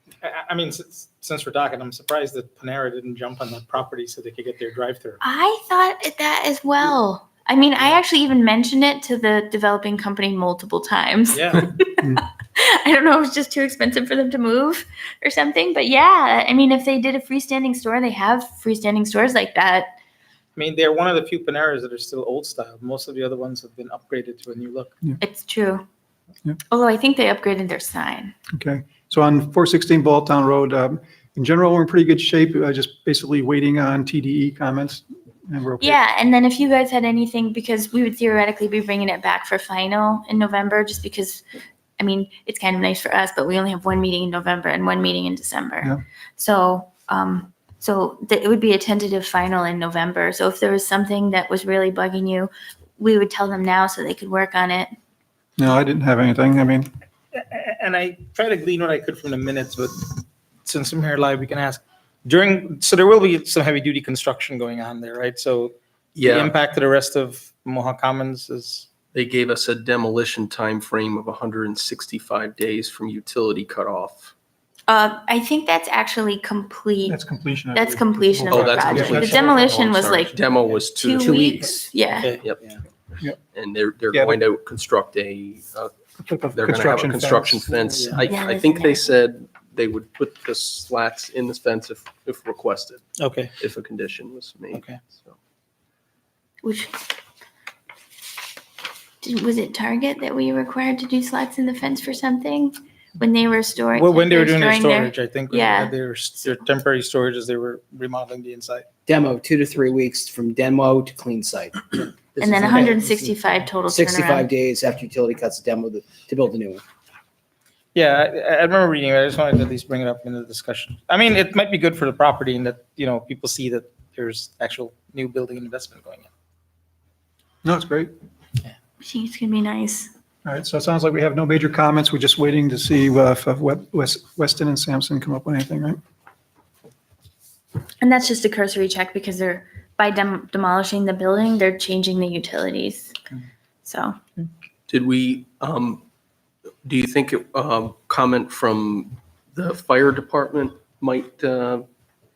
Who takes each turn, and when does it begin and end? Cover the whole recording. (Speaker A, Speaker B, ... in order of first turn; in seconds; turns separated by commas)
Speaker A: 0.2-5.2, Speaker B: 5.2-19.9, Speaker A: 11.3-11.7, Speaker A: 20.6-25.0, Speaker B: 25.2-25.8, Speaker B: 26.7-28.3, Speaker C: 28.5-36.0, Speaker B: 35.8-41.4, Speaker B: 42.0-54.9, Speaker C: 55.6-56.9, Speaker A: 57.3-68.9, Speaker D: 66.1-66.5, Speaker D: 69.1-74.3, Speaker B: 74.9-77.2, Speaker C: 77.1-80.0, Speaker B: 77.7-80.3, Speaker D: 78.5-81.6, Speaker A: 79.1-79.5, Speaker B: 81.0-82.3, Speaker E: 81.2-81.9, Speaker A: 82.2-82.5, Speaker D: 83.5-85.9, Speaker C: 84.1-84.4, Speaker C: 86.2-88.1, Speaker D: 86.5-93.0, Speaker B: 88.3-89.0, Speaker A: 93.2-93.5, Speaker D: 93.6-95.3, Speaker A: 94.7-95.0, Speaker B: 96.6-97.0, Speaker B: 99.2-105.9, Speaker A: 103.9-108.8, Speaker E: 109.1-116.8, Speaker B: 112.4-114.5, Speaker A: 117.9-126.3, Speaker C: 127.6-128.1, Speaker B: 129.0-130.1, Speaker C: 130.4-136.0, Speaker B: 138.0-143.1, Speaker B: 143.8-144.2, Speaker D: 144.9-146.0, Speaker D: 146.8-151.8